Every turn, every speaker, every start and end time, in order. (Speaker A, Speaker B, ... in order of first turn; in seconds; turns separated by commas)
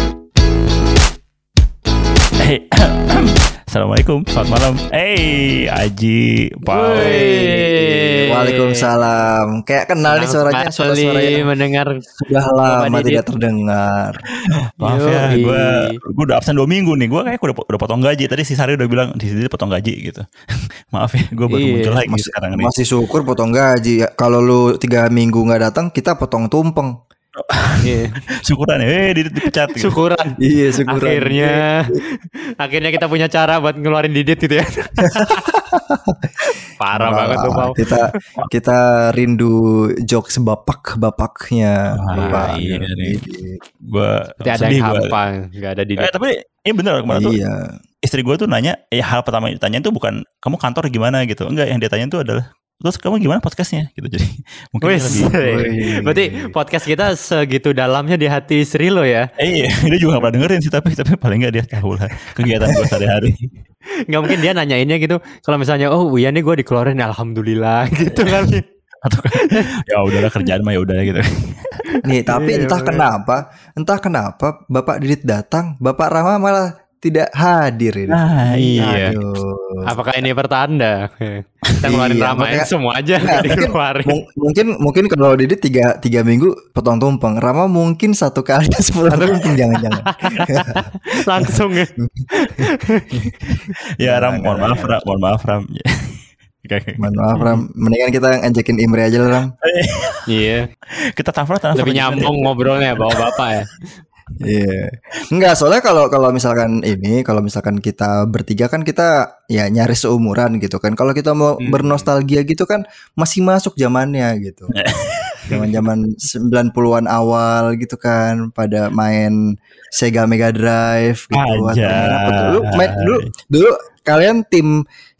Speaker A: 2.4-7.1, Speaker B: 6.7-8.9, Speaker C: 7.0-11.5, Speaker B: 10.1-12.1, Speaker C: 12.2-14.1, Speaker B: 12.7-13.2, Speaker A: 14.8-20.2, Speaker B: 14.8-15.9, Speaker A: 20.9-22.7, Speaker B: 21.5-22.0, Speaker C: 22.1-26.9, Speaker A: 27.4-30.0, Speaker B: 27.8-28.2, Speaker B: 29.7-32.0, Speaker C: 30.4-32.0, Speaker B: 32.6-35.5, Speaker C: 35.0-43.6, Speaker B: 36.8-38.2, Speaker A: 41.9-43.2, Speaker B: 42.2-42.6, Speaker A: 43.8-45.1, Speaker B: 44.4-46.1, Speaker A: 46.0-47.4, Speaker C: 47.1-47.7, Speaker A: 48.0-55.3, Speaker B: 54.8-59.3, Speaker C: 55.4-56.5, Speaker A: 59.4-63.5, Speaker B: 64.1-68.7, Speaker A: 68.1-71.9, Speaker B: 69.4-69.7, Speaker B: 71.9-73.1, Speaker C: 72.0-78.2, Speaker A: 78.1-79.2, Speaker B: 78.5-79.2, Speaker C: 78.8-80.0, Speaker B: 79.8-84.2, Speaker C: 81.8-82.7, Speaker C: 83.2-90.9, Speaker B: 89.1-93.2, Speaker C: 91.4-93.3, Speaker A: 93.5-95.9, Speaker C: 94.0-95.0, Speaker A: 96.6-97.6, Speaker C: 97.0-99.5, Speaker A: 99.6-100.2, Speaker B: 100.3-100.7, Speaker A: 101.2-103.4, Speaker B: 101.7-103.7, Speaker C: 104.4-114.7, Speaker B: 111.6-112.0, Speaker A: 114.8-115.5, Speaker C: 115.5-119.4, Speaker C: 119.9-124.8, Speaker A: 121.3-123.2